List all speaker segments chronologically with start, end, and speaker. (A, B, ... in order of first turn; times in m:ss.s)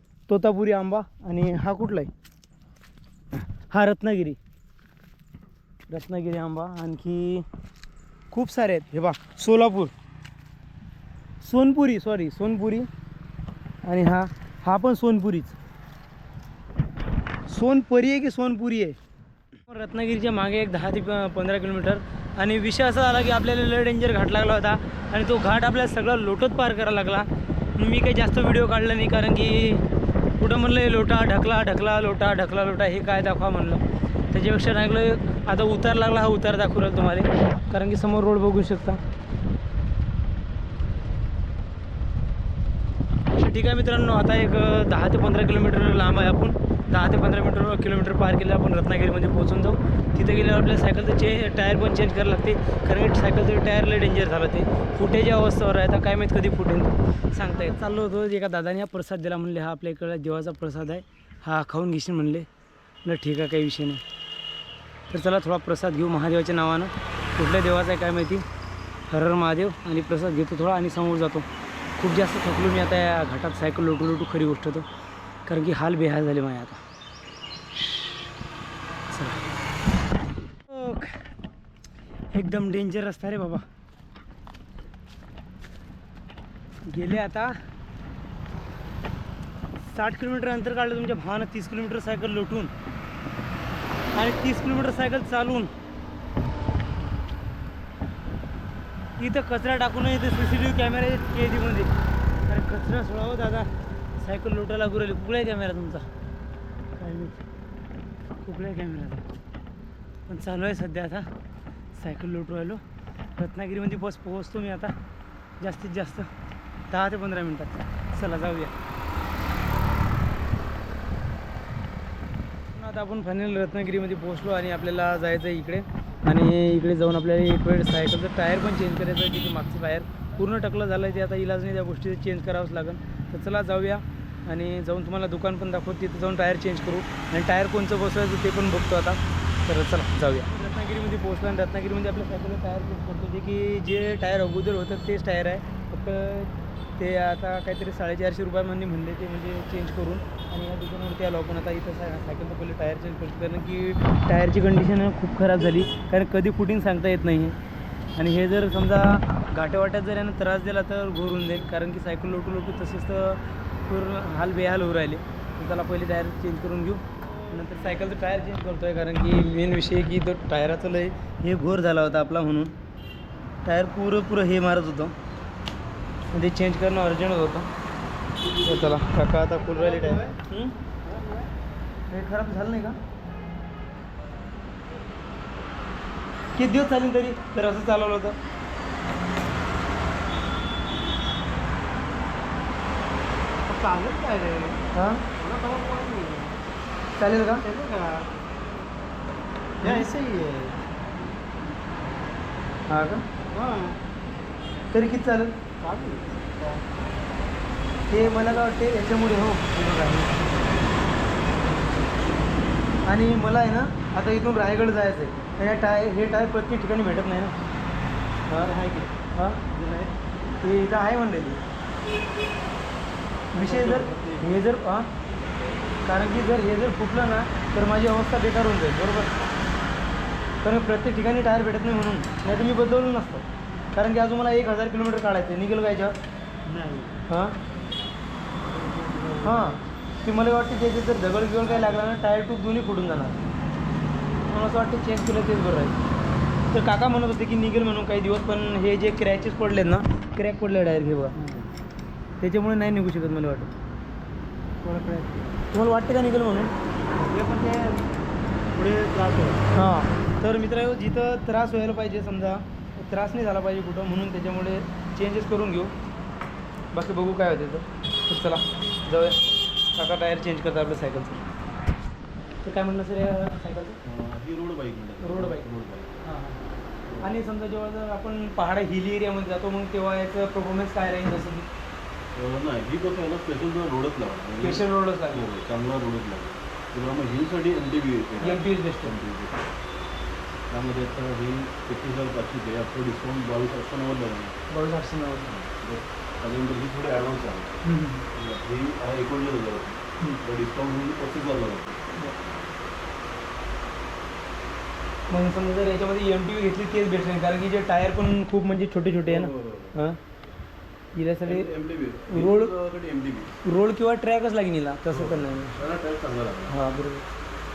0:00.3-0:02.1 A
0:03.5-0:04.4 A
0:05.9-0:07.5 A
0:08.3-0:09.9 A
0:11.4-0:12.9 A
0:13.8-0:15.6 A
0:17.5-0:19.0 A
0:19.6-0:29.8 A
0:30.4-0:39.0 A
0:43.3-1:02.5 A
1:03.0-1:04.0 A
1:05.1-1:08.4 A
1:09.1-1:14.9 A
1:15.5-1:16.8 A
1:19.1-1:19.4 A
1:20.7-1:21.2 A
1:22.3-1:23.6 A
1:26.9-1:27.6 A
1:29.8-1:32.7 A
1:34.1-1:35.7 A
1:39.2-1:41.9 A
1:42.5-1:46.1 A
1:47.0-1:47.4 A
1:48.4-1:49.3 A
1:50.3-1:51.3 A
1:51.9-1:52.8 A
1:53.4-1:55.0 A
1:55.6-1:56.3 A
1:56.9-1:58.7 A
2:02.7-2:37.6 A
2:38.2-2:52.8 A
2:53.6-2:55.2 A
2:56.3-2:57.7 A
2:58.6-3:00.8 A
3:01.1-3:01.5 B
3:02.1-3:03.0 A
3:06.6-3:08.4 A
3:13.7-3:14.8 B
3:14.9-3:15.3 A
3:15.4-3:16.6 B
3:17.2-3:17.7 A
3:17.6-3:18.3 B
3:19.8-3:20.1 A
3:19.8-3:20.8 B
3:22.9-3:23.2 A
3:23.5-3:24.0 B
3:24.9-3:25.7 A
3:25.8-3:26.8 B
3:28.1-3:30.4 A
3:33.0-3:37.6 A
3:38.5-3:39.8 A
3:40.6-3:41.6 A
3:43.5-3:45.1 A
3:43.5-3:44.6 C
3:46.0-3:49.3 A
3:50.6-3:56.2 A
3:56.7-3:57.2 B
3:57.3-3:57.6 A
3:58.7-3:59.6 B
3:59.4-4:03.4 A
4:04.5-4:06.0 A
4:06.7-4:11.4 A
4:12.4-4:13.7 A
4:14.8-4:15.4 B
4:15.7-4:16.7 A
4:17.1-4:18.0 B
4:18.8-4:19.6 B
4:19.7-4:25.9 A
4:26.9-4:31.4 A
4:32.6-4:34.0 A
4:34.0-4:36.2 C
4:35.2-4:35.7 A
4:36.2-4:36.6 A
4:37.2-4:41.7 A
4:42.3-4:49.7 C
4:44.6-4:45.5 A
4:48.4-4:49.1 A
4:50.7-4:54.6 C
4:54.7-4:55.5 A
4:55.5-4:57.8 C
4:57.8-4:58.3 A
4:58.3-5:02.1 C
5:05.3-5:10.2 A
5:09.3-5:10.0 C
5:11.2-5:11.7 A
5:11.4-5:13.6 C
5:12.3-5:12.7 A
5:13.6-5:15.8 A
5:15.1-5:16.8 C
5:16.7-5:17.2 A